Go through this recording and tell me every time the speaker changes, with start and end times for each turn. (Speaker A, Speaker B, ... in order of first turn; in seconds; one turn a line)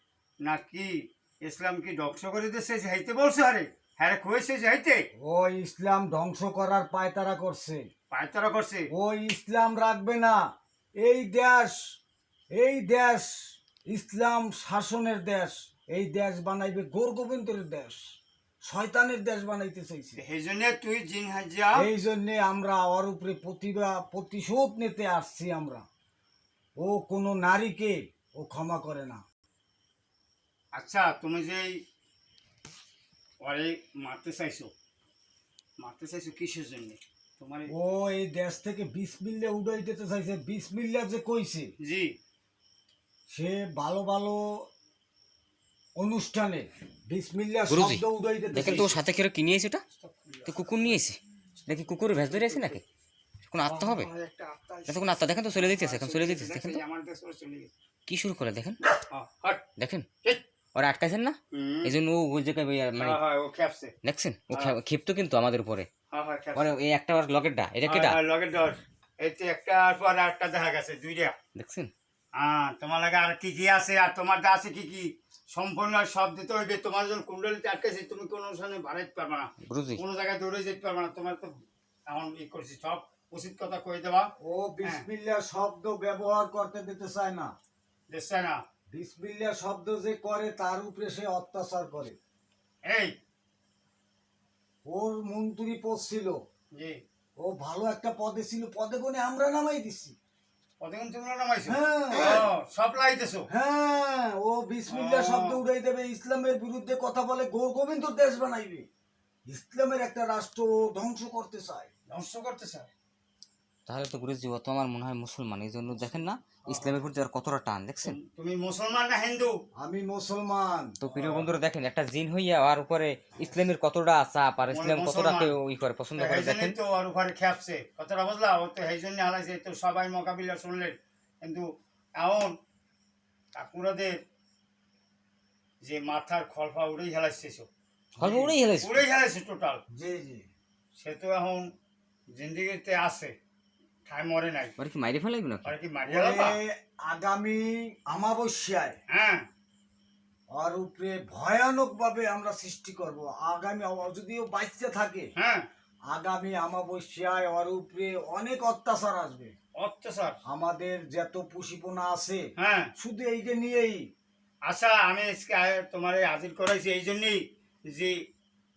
Speaker A: 0.4-0.9
Speaker A: 1.4-5.0
Speaker B: 5.2-7.8
Speaker A: 8.1-8.8
Speaker B: 8.9-10.4
Speaker B: 11.0-11.8
Speaker B: 12.5-13.3
Speaker B: 13.9-18.0
Speaker B: 18.6-20.2
Speaker A: 20.1-21.9
Speaker B: 21.8-25.8
Speaker B: 26.8-29.2
Speaker A: 30.7-31.8
Speaker A: 33.4-34.7
Speaker A: 35.8-37.7
Speaker B: 37.7-41.7
Speaker A: 41.8-42.1
Speaker B: 43.3-44.6
Speaker B: 46.0-49.0
Speaker C: 47.7-49.8
Speaker A: 49.9-51.0
Speaker C: 50.5-52.8
Speaker A: 52.3-52.8
Speaker C: 53.5-54.1
Speaker A: 53.6-55.0
Speaker C: 54.9-56.8
Speaker A: 55.6-57.7
Speaker C: 58.1-58.8
Speaker A: 59.1-59.6
Speaker C: 59.8-60.0
Speaker C: 60.7-63.2
Speaker A: 61.5-61.9
Speaker A: 63.0-63.9
Speaker C: 64.0-65.9
Speaker A: 66.1-66.7
Speaker C: 66.5-68.2
Speaker A: 67.9-71.3
Speaker C: 71.5-71.9
Speaker A: 72.3-81.5
Speaker C: 79.7-80.0
Speaker A: 82.1-84.3
Speaker B: 84.4-87.5
Speaker A: 88.1-88.6
Speaker B: 88.9-92.2
Speaker A: 92.8-93.1
Speaker B: 94.8-96.4
Speaker A: 96.7-97.0
Speaker B: 97.4-100.1
Speaker A: 100.8-103.5
Speaker B: 101.7-102.4
Speaker B: 103.5-108.8
Speaker A: 104.9-105.6
Speaker B: 109.5-111.9
Speaker A: 112.1-112.9
Speaker C: 113.9-118.2
Speaker A: 116.7-117.0
Speaker A: 118.0-119.5
Speaker B: 119.8-121.0
Speaker C: 121.0-126.8
Speaker A: 121.1-121.5
Speaker A: 124.7-125.5
Speaker A: 126.2-132.5
Speaker A: 133.5-134.2
Speaker A: 135.8-137.7
Speaker C: 138.2-139.0
Speaker A: 138.2-139.8
Speaker B: 139.9-140.5
Speaker A: 140.9-141.7
Speaker A: 142.3-143.3
Speaker A: 144.1-144.7
Speaker C: 144.8-145.7
Speaker A: 145.6-146.6
Speaker B: 146.1-148.9
Speaker A: 149.1-149.4
Speaker B: 150.5-155.3
Speaker A: 155.3-155.6
Speaker B: 156.1-159.5
Speaker A: 159.8-160.4
Speaker B: 160.4-162.4
Speaker A: 162.6-162.9
Speaker B: 163.0-164.0
Speaker A: 164.7-168.1